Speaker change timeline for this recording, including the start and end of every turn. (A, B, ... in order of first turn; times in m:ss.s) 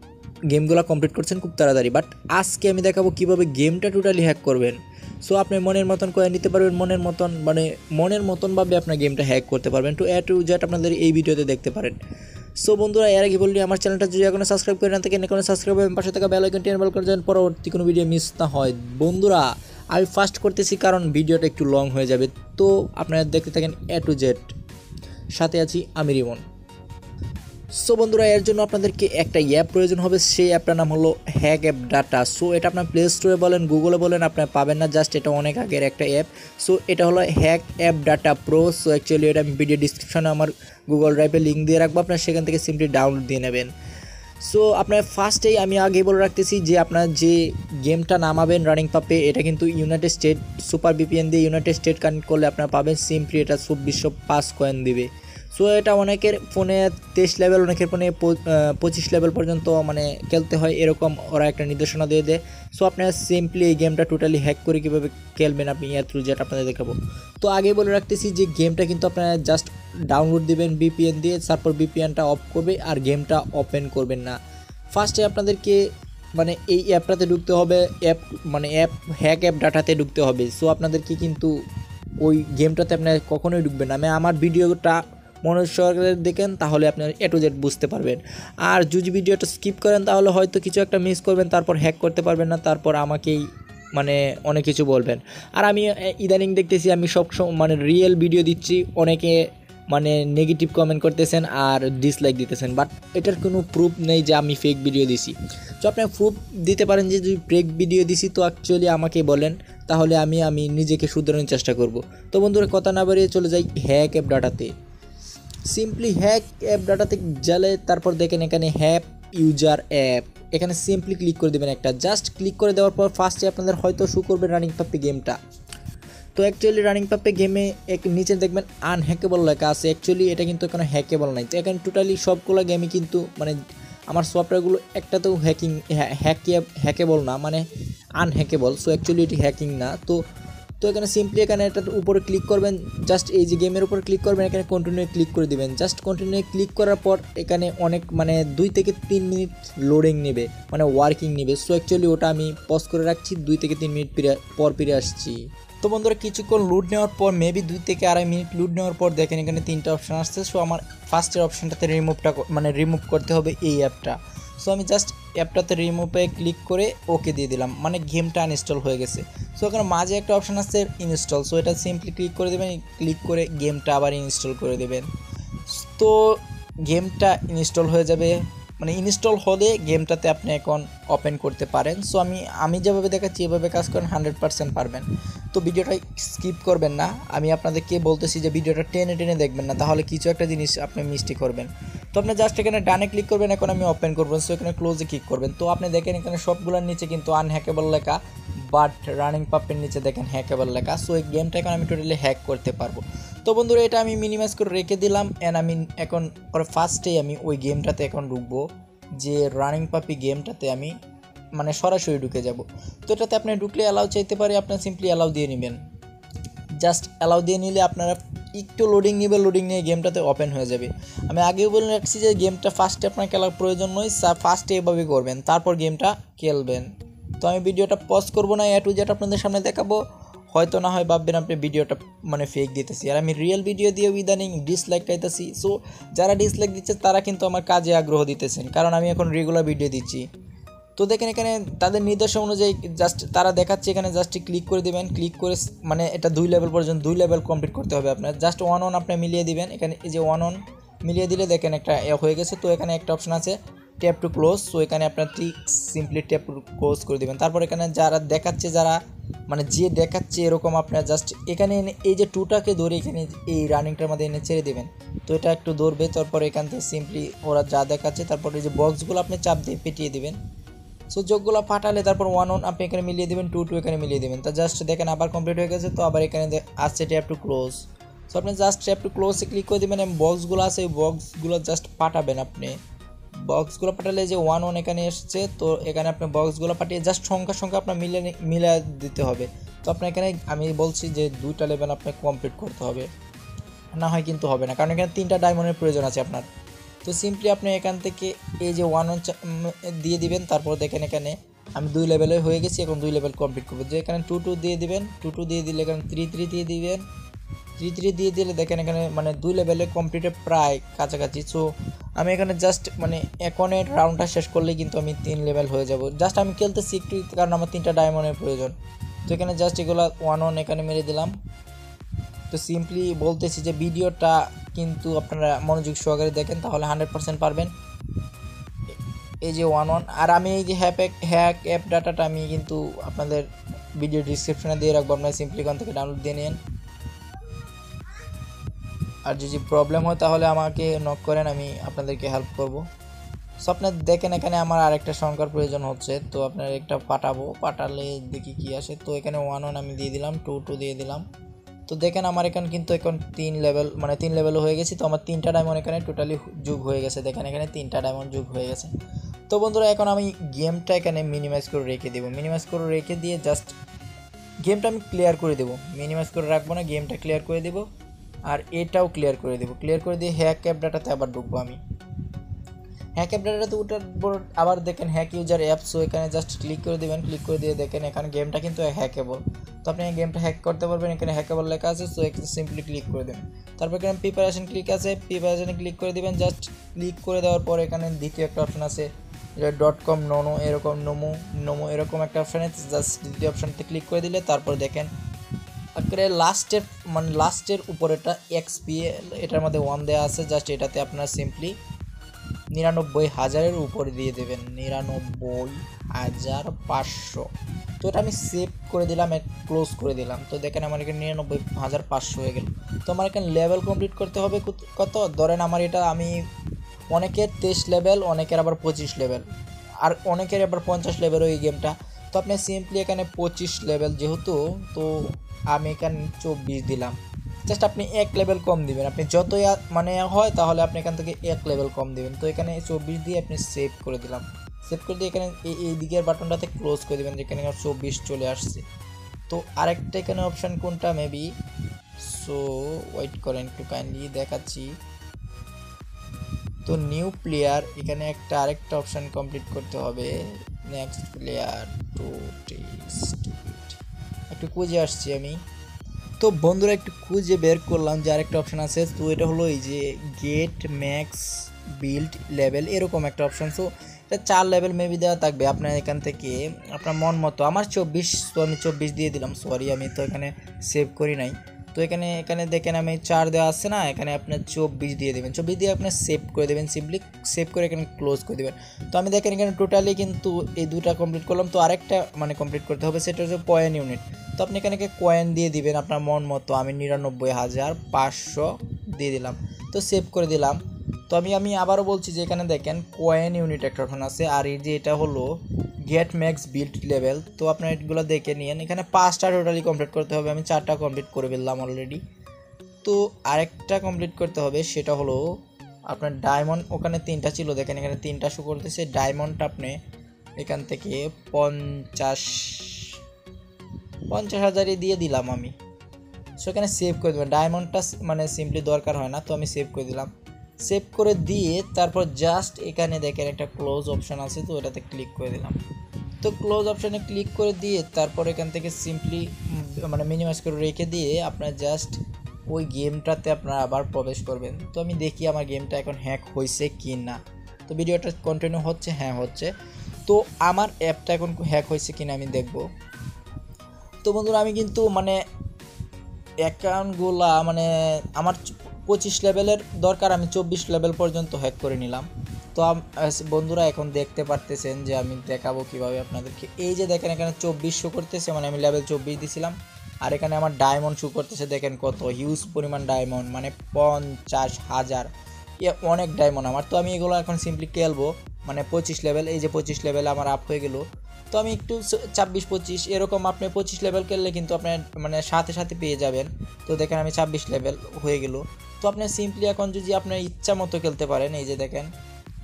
0:00.5-0:12.0 A
0:12.6-0:24.6 A
0:25.4-0:26.4 A
0:27.7-0:43.7 A
0:44.4-1:14.4 A
1:14.9-1:15.8 A
1:16.4-1:21.5 A
1:22.2-1:54.7 A
1:55.7-2:05.4 A
2:06.4-2:13.6 A
2:14.1-2:17.6 A
2:18.2-2:20.2 A
2:20.8-2:55.1 A
2:55.7-3:31.0 A
3:31.6-3:35.8 A
3:36.8-3:50.0 A
3:50.5-4:00.3 A
4:01.0-4:30.4 A
4:31.1-4:42.8 A
4:43.4-4:53.1 A
4:53.9-4:56.5 A
4:57.0-5:07.0 A
5:07.8-5:18.8 A
5:19.3-5:21.4 A
5:22.5-5:27.7 A
5:29.4-5:36.6 A
5:39.2-5:42.9 A
5:43.6-5:51.2 A
5:51.9-5:58.9 A
5:59.5-6:03.8 A
6:04.6-6:07.9 A
6:08.4-6:11.8 A
6:13.2-6:35.1 A
6:36.0-6:41.8 A
6:42.7-6:56.4 A
6:57.1-6:59.5 A
7:00.0-7:18.8 A
7:19.5-7:21.5 A
7:22.2-7:25.0 A
7:26.8-7:34.0 A
7:34.5-7:35.6 A
7:36.4-8:22.2 A
8:23.0-8:25.6 A
8:26.1-8:30.0 A
8:30.6-8:33.2 A
8:34.3-8:35.7 A
8:36.6-8:45.8 A
8:46.4-8:59.7 A
9:00.3-9:02.9 A
9:04.2-9:05.4 A
9:06.6-9:42.1 A